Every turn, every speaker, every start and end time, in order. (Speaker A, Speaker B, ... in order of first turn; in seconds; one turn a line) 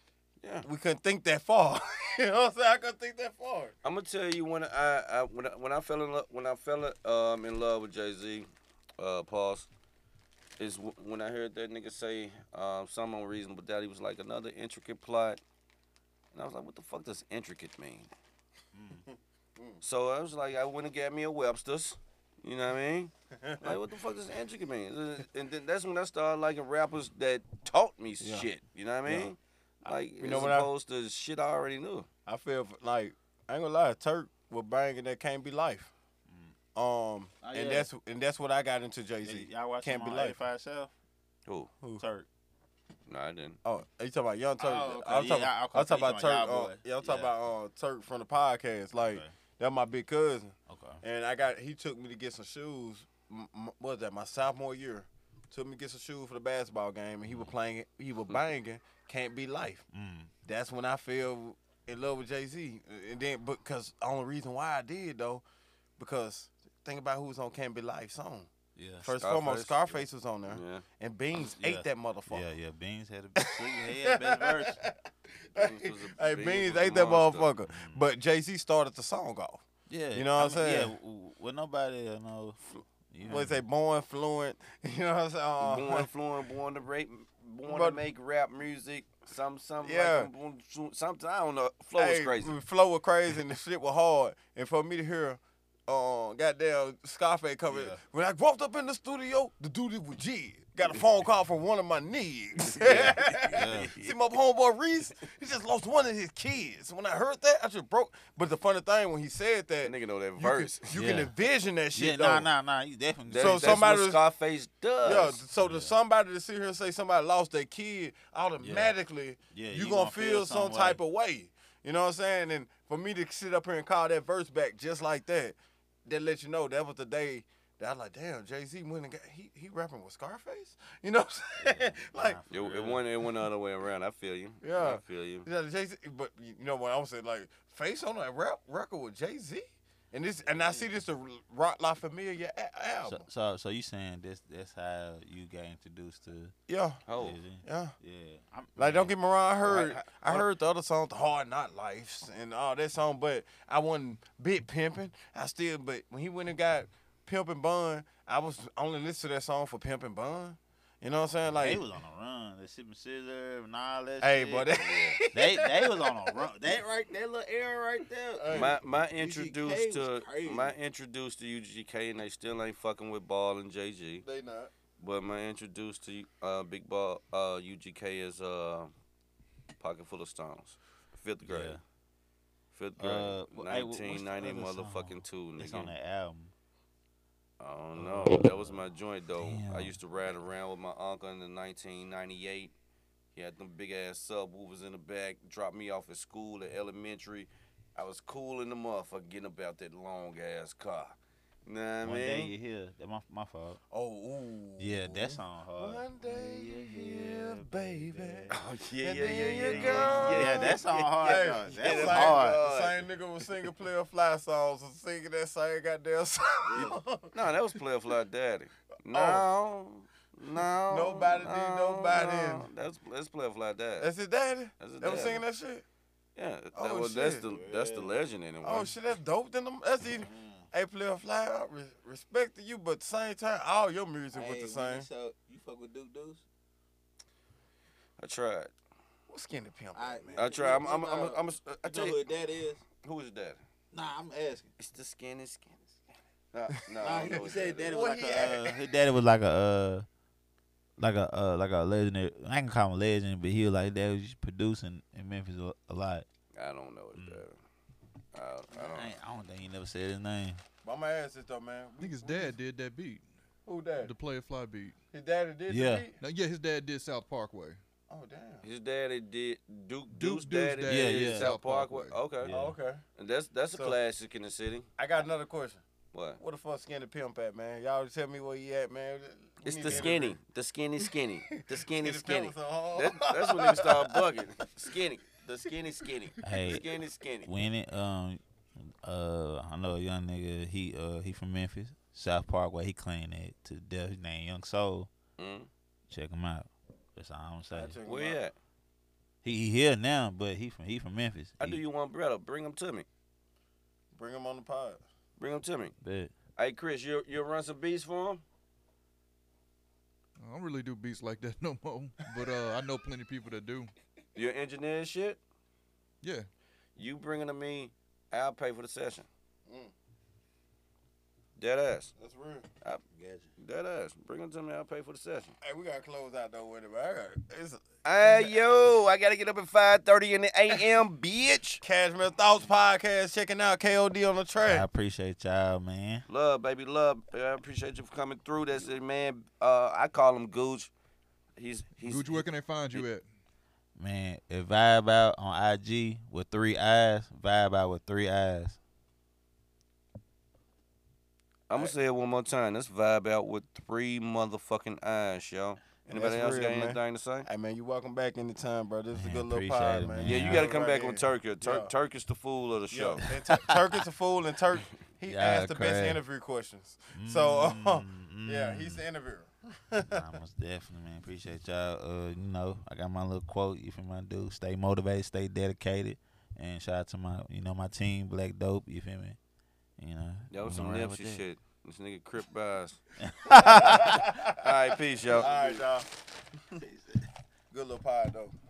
Speaker A: 0.4-0.7
Speaker B: 0.7-3.8
Speaker A: 3.8-9.7
Speaker A: 10.6-15.4
Speaker A: 16.3-18.1
Speaker C: 18.8-19.0
Speaker B: 19.1-19.8
Speaker A: 19.8-32.1
Speaker B: 23.3-23.8
Speaker B: 28.2-28.5
Speaker B: 30.2-30.7
Speaker B: 32.3-35.9
Speaker C: 36.3-36.5
Speaker B: 36.8-40.4
Speaker C: 37.4-37.9
Speaker C: 39.2-40.9
Speaker A: 41.5-41.7
Speaker C: 42.0-42.3
Speaker A: 43.1-43.6
Speaker B: 43.6-59.9
Speaker C: 44.6-47.3
Speaker C: 49.0-49.3
Speaker C: 50.7-51.0
Speaker C: 59.9-60.3
Speaker B: 60.5-65.4
Speaker B: 66.0-72.5
Speaker C: 68.8-69.1
Speaker A: 69.2-70.8
Speaker C: 71.3-74.8
Speaker B: 73.4-81.0
Speaker A: 75.5-77.5
Speaker C: 77.7-78.0
Speaker C: 79.9-82.6
Speaker C: 83.1-83.6
Speaker B: 83.2-86.1
Speaker A: 85.6-92.6
Speaker B: 87.7-88.0
Speaker B: 89.8-90.3
Speaker B: 92.0-112.5
Speaker C: 97.7-98.0
Speaker A: 102.7-104.1
Speaker C: 102.8-103.9
Speaker A: 109.8-110.9
Speaker C: 110.9-111.3
Speaker C: 112.0-113.8
Speaker A: 113.3-115.4
Speaker B: 113.4-114.2
Speaker B: 115.0-132.4
Speaker C: 115.6-115.9
Speaker C: 118.6-118.9
Speaker C: 119.5-121.0
Speaker C: 131.6-133.0
Speaker A: 132.5-135.5
Speaker B: 134.6-143.3
Speaker C: 143.0-146.5
Speaker B: 146.7-147.0
Speaker A: 147.1-147.4
Speaker C: 147.2-150.5
Speaker B: 147.6-147.9
Speaker B: 148.8-161.8
Speaker C: 161.5-164.8
Speaker B: 164.2-166.5
Speaker A: 164.8-165.2
Speaker C: 165.3-168.8
Speaker B: 168.3-170.8
Speaker A: 168.5-174.3
Speaker B: 174.2-174.7
Speaker A: 175.0-178.9
Speaker A: 179.8-181.8
Speaker C: 181.5-181.8
Speaker A: 182.7-185.9
Speaker C: 183.0-186.5
Speaker A: 187.6-192.7
Speaker C: 188.0-188.8
Speaker C: 189.4-190.0
Speaker A: 193.3-202.5
Speaker C: 202.0-203.8
Speaker B: 203.9-217.5
Speaker C: 204.8-208.5
Speaker A: 208.5-213.1
Speaker C: 209.2-212.6
Speaker C: 216.7-217.0
Speaker A: 216.8-224.1
Speaker B: 219.1-219.5
Speaker B: 220.9-222.7
Speaker B: 224.0-225.8
Speaker A: 224.8-225.4
Speaker A: 226.4-228.9
Speaker B: 226.8-227.4
Speaker C: 227.5-228.2
Speaker B: 228.6-235.1
Speaker C: 230.0-230.7
Speaker C: 234.3-236.4
Speaker A: 238.2-238.7
Speaker B: 239.3-240.5
Speaker C: 239.9-242.8
Speaker A: 240.4-242.2
Speaker A: 243.0-243.6
Speaker C: 243.9-244.7
Speaker A: 244.8-246.0
Speaker A: 246.5-248.0
Speaker C: 247.0-250.1
Speaker B: 247.2-248.9
Speaker C: 251.0-256.3
Speaker A: 256.6-257.6
Speaker C: 257.2-257.4
Speaker A: 258.3-259.1
Speaker C: 258.7-260.6
Speaker B: 260.8-262.6
Speaker D: 262.0-263.3
Speaker B: 263.6-264.1
Speaker D: 264.0-265.0
Speaker B: 265.1-266.2
Speaker C: 265.7-266.1
Speaker D: 266.2-267.8
Speaker B: 268.1-268.6
Speaker A: 268.6-272.5
Speaker D: 270.1-272.2
Speaker C: 270.9-271.5
Speaker C: 272.4-272.8
Speaker B: 272.5-273.0
Speaker A: 273.2-274.9
Speaker B: 275.0-275.8
Speaker A: 276.1-276.4
Speaker B: 276.4-280.4
Speaker A: 279.6-287.5
Speaker C: 279.9-280.1
Speaker B: 281.6-284.1
Speaker C: 286.4-295.1
Speaker A: 295.4-295.7
Speaker C: 296.1-298.0
Speaker B: 297.7-298.4
Speaker A: 298.0-298.6
Speaker C: 299.4-301.8
Speaker A: 301.6-303.1
Speaker B: 304.1-305.0
Speaker A: 305.4-305.9
Speaker C: 306.0-306.3
Speaker A: 306.6-308.4
Speaker D: 310.4-313.9
Speaker A: 314.4-315.4
Speaker D: 316.2-316.5
Speaker A: 317.0-319.3
Speaker B: 319.7-319.9
Speaker A: 321.6-322.1
Speaker B: 322.2-322.7
Speaker C: 323.1-323.5
Speaker A: 323.6-325.6
Speaker B: 325.6-328.6
Speaker A: 328.0-331.8
Speaker B: 331.8-334.9
Speaker C: 334.6-336.3
Speaker A: 336.3-340.9
Speaker A: 341.6-343.0
Speaker D: 342.1-343.3
Speaker C: 344.0-348.8
Speaker A: 351.7-357.5
Speaker B: 356.1-361.9
Speaker C: 359.1-360.7
Speaker A: 360.2-363.2
Speaker B: 362.9-370.2
Speaker C: 363.3-363.8
Speaker C: 365.3-366.2
Speaker C: 367.1-369.0
Speaker C: 370.1-379.4
Speaker C: 380.0-381.4
Speaker A: 380.5-383.0
Speaker C: 383.2-384.4
Speaker B: 383.5-384.6
Speaker A: 384.5-385.5
Speaker C: 385.3-386.0
Speaker B: 385.3-386.1
Speaker C: 386.8-387.3
Speaker B: 387.7-388.6